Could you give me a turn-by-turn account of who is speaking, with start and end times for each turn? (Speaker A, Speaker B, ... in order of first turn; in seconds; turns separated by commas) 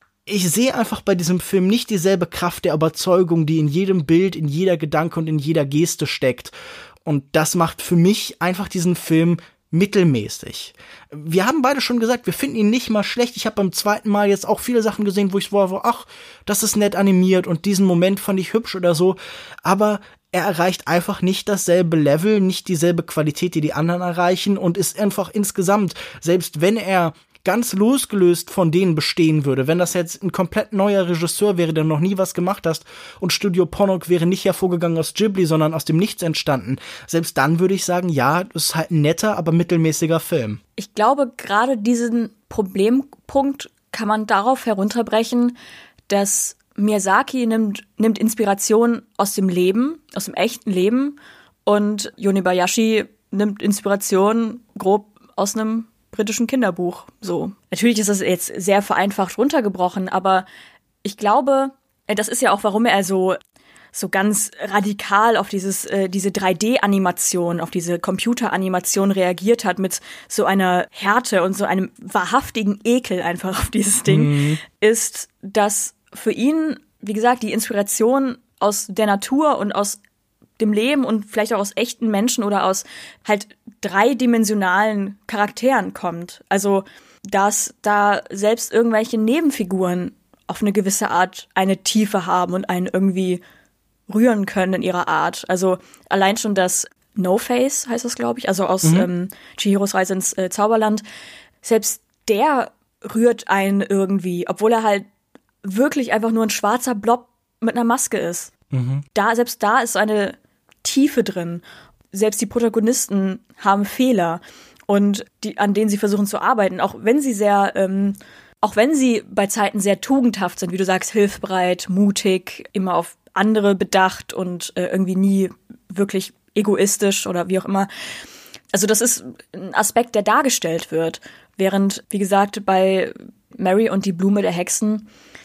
Speaker A: 0.2-6.5, Speaker A: 7.0-40.6, Speaker B: 40.8-45.5, Speaker B: 46.1-60.5, Speaker B: 61.0-63.4, Speaker B: 63.9-80.0, Speaker A: 74.1-74.6, Speaker B: 80.6-93.4, Speaker B: 94.1-101.0, Speaker A: 98.8-99.1, Speaker B: 101.6-105.0, Speaker B: 105.6-108.5, Speaker A: 108.7-109.0, Speaker B: 109.1-111.6, Speaker B: 112.1-127.9, Speaker B: 128.7-135.1